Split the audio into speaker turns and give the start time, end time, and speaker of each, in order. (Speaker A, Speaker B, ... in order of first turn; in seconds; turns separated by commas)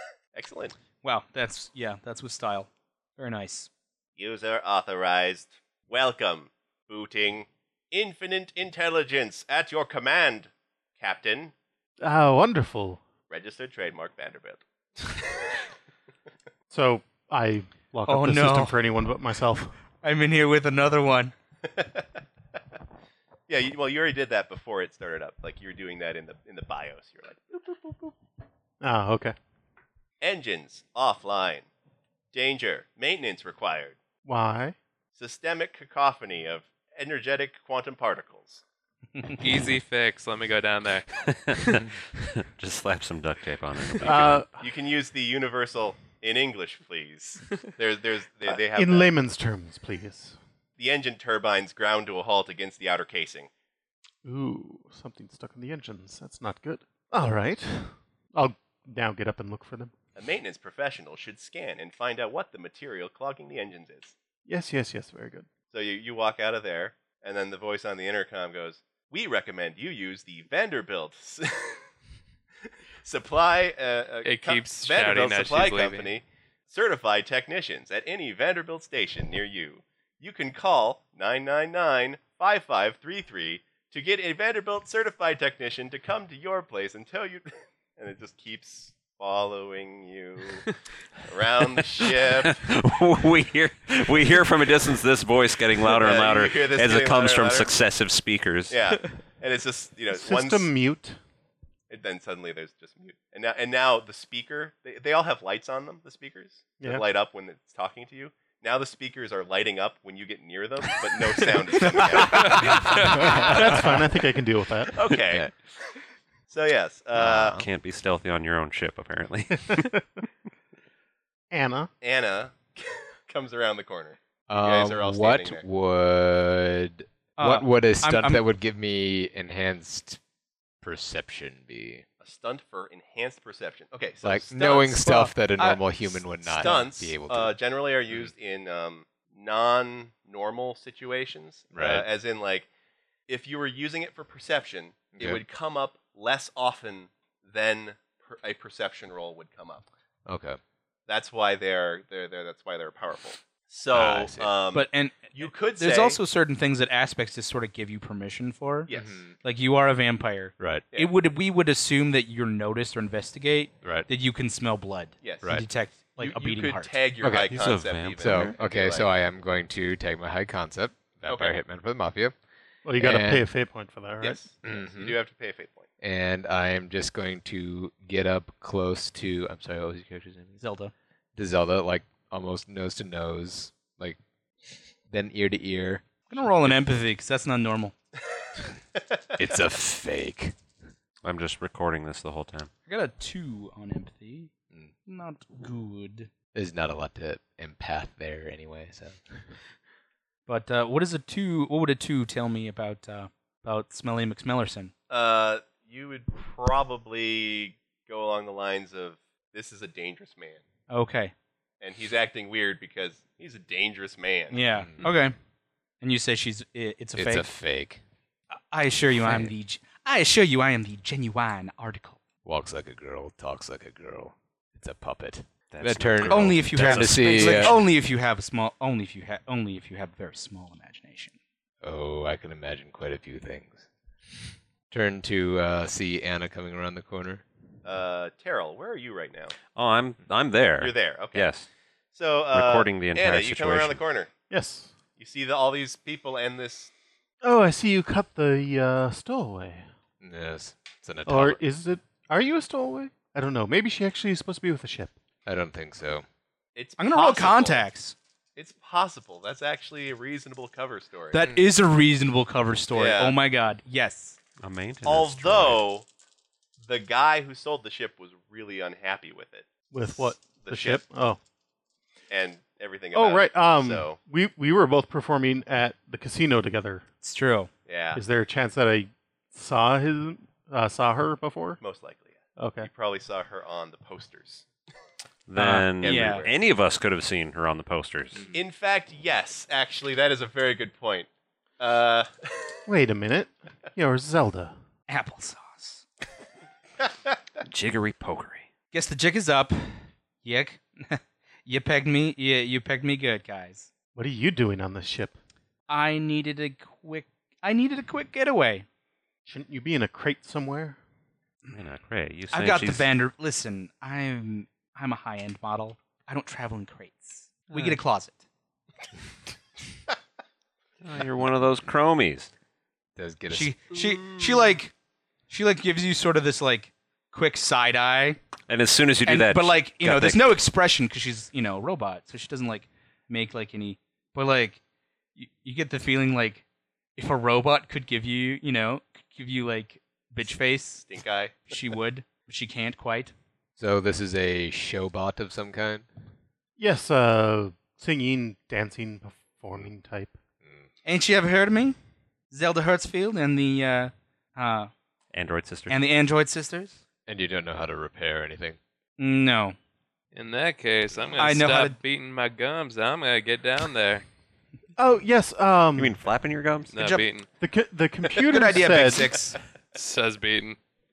Speaker A: 0.3-0.7, Speaker B: 1.0-3.7, Speaker A: 4.2-11.5, Speaker C: 12.0-13.0, Speaker A: 13.3-15.2, Speaker C: 16.7-19.7, Speaker B: 18.1-18.8, Speaker B: 20.0-21.3, Speaker A: 21.6-22.1, Speaker A: 23.5-28.1, Speaker C: 28.8-29.4, Speaker A: 30.2-31.7, Speaker A: 32.3-34.0, Speaker C: 34.2-34.8, Speaker A: 35.1-38.6, Speaker D: 39.4-41.1, Speaker E: 41.1-44.4, Speaker C: 44.0-44.6, Speaker A: 44.6-49.1, Speaker C: 48.5-50.4, Speaker A: 50.8-53.5, Speaker C: 54.2-59.9, Speaker A: 60.1-64.1, Speaker C: 64.5-65.5, Speaker A: 65.7-71.8, Speaker A: 72.7-90.6, Speaker D: 74.2-76.1, Speaker A: 91.2-92.6, Speaker E: 92.2-98.8, Speaker A: 95.9-97.7, Speaker A: 98.7-100.7, Speaker C: 100.1-101.2, Speaker A: 101.9-113.6, Speaker F: 112.0-113.9, Speaker C: 113.1-114.9, Speaker A: 114.9-115.5, Speaker F: 115.1-115.5, Speaker A: 116.5-117.6, Speaker F: 117.2-117.7, Speaker E: 117.5-119.9, Speaker C: 119.7-120.0, Speaker C: 121.5-121.9, Speaker A: 122.0-125.6, Speaker F: 124.5-130.2, Speaker B: 127.4-128.4, Speaker F: 130.8-132.0, Speaker A: 132.2-135.2, Speaker F: 134.2-137.5, Speaker B: 135.0-135.8, Speaker A: 136.4-142.7, Speaker F: 141.7-142.1, Speaker A: 143.3-149.8, Speaker F: 150.2-150.6, Speaker A: 151.1-156.2, Speaker F: 153.9-154.5, Speaker B: 154.7-167.0, Speaker A: 158.9-159.2, Speaker F: 158.9-159.3, Speaker F: 160.6-160.8, Speaker F: 163.8-164.1, Speaker A: 165.2-165.6, Speaker A: 166.1-169.1, Speaker F: 167.2-172.3, Speaker E: 167.4-168.6, Speaker A: 171.3-171.6, Speaker C: 172.8-174.4, Speaker F: 173.0-173.5, Speaker A: 174.2-175.9, Speaker F: 174.6-175.2, Speaker F: 176.0-180.6, Speaker B: 180.6-180.9, Speaker F: 181.3-184.2, Speaker F: 184.7-186.8, Speaker B: 186.3-187.9, Speaker F: 189.3-190.5, Speaker E: 191.2-192.7, Speaker B: 192.9-194.5, Speaker B: 195.1-196.3, Speaker F: 196.5-199.5, Speaker B: 200.5-204.9, Speaker A: 205.1-210.6, Speaker B: 210.9-211.3, Speaker A: 211.8-214.6, Speaker B: 214.5-215.3, Speaker F: 214.8-215.1, Speaker B: 216.0-217.5, Speaker F: 217.2-218.0, Speaker B: 218.7-222.2, Speaker F: 219.2-219.5, Speaker F: 222.4-227.8, Speaker E: 225.7-227.8, Speaker B: 226.2-231.3, Speaker F: 231.8-233.9, Speaker F: 234.9-237.4, Speaker A: 237.8-239.5, Speaker E: 239.7-241.7, Speaker A: 240.8-241.5, Speaker A: 242.1-244.3, Speaker E: 242.5-244.0, Speaker C: 244.5-244.9, Speaker A: 245.2-246.9, Speaker C: 247.4-249.8, Speaker F: 250.2-251.6, Speaker C: 251.2-255.1, Speaker F: 255.4-256.2, Speaker A: 256.8-257.9, Speaker B: 257.0-258.1, Speaker A: 258.6-261.4, Speaker B: 261.3-264.4, Speaker A: 262.9-263.4, Speaker E: 264.6-265.8, Speaker A: 265.0-266.1, Speaker A: 266.8-271.0, Speaker C: 269.9-271.4, Speaker A: 272.3-274.2, Speaker C: 273.1-277.0, Speaker B: 277.2-277.7, Speaker A: 277.9-278.2, Speaker C: 278.1-281.8, Speaker A: 281.8-284.6, Speaker C: 282.6-282.9, Speaker E: 285.5-288.5, Speaker B: 285.6-286.5, Speaker A: 286.0-286.6, Speaker A: 288.5-291.3, Speaker A: 291.8-292.8, Speaker C: 292.9-294.7, Speaker B: 295.1-296.0, Speaker E: 297.6-298.7, Speaker B: 298.9-303.9, Speaker C: 304.1-305.3, Speaker B: 305.9-308.9, Speaker C: 309.4-311.0, Speaker E: 311.7-313.1, Speaker B: 312.5-318.4, Speaker E: 321.0-322.5, Speaker F: 323.1-323.7, Speaker B: 323.5-324.9, Speaker A: 323.9-324.6, Speaker B: 325.5-328.4, Speaker E: 328.7-330.5, Speaker B: 329.2-334.8, Speaker B: 335.4-336.6, Speaker B: 337.2-341.1, Speaker A: 341.0-341.6, Speaker B: 341.7-343.3, Speaker F: 343.8-346.1, Speaker C: 346.8-350.4, Speaker B: 351.0-352.0, Speaker B: 352.5-354.9, Speaker E: 355.3-356.0, Speaker B: 355.9-357.0, Speaker F: 357.3-358.8, Speaker B: 359.2-359.8, Speaker D: 360.3-364.2, Speaker B: 361.4-362.0, Speaker C: 364.9-366.1, Speaker E: 365.9-366.9, Speaker D: 366.9-367.5, Speaker B: 367.0-367.2, Speaker C: 367.6-369.3, Speaker B: 368.4-369.6, Speaker D: 369.9-370.8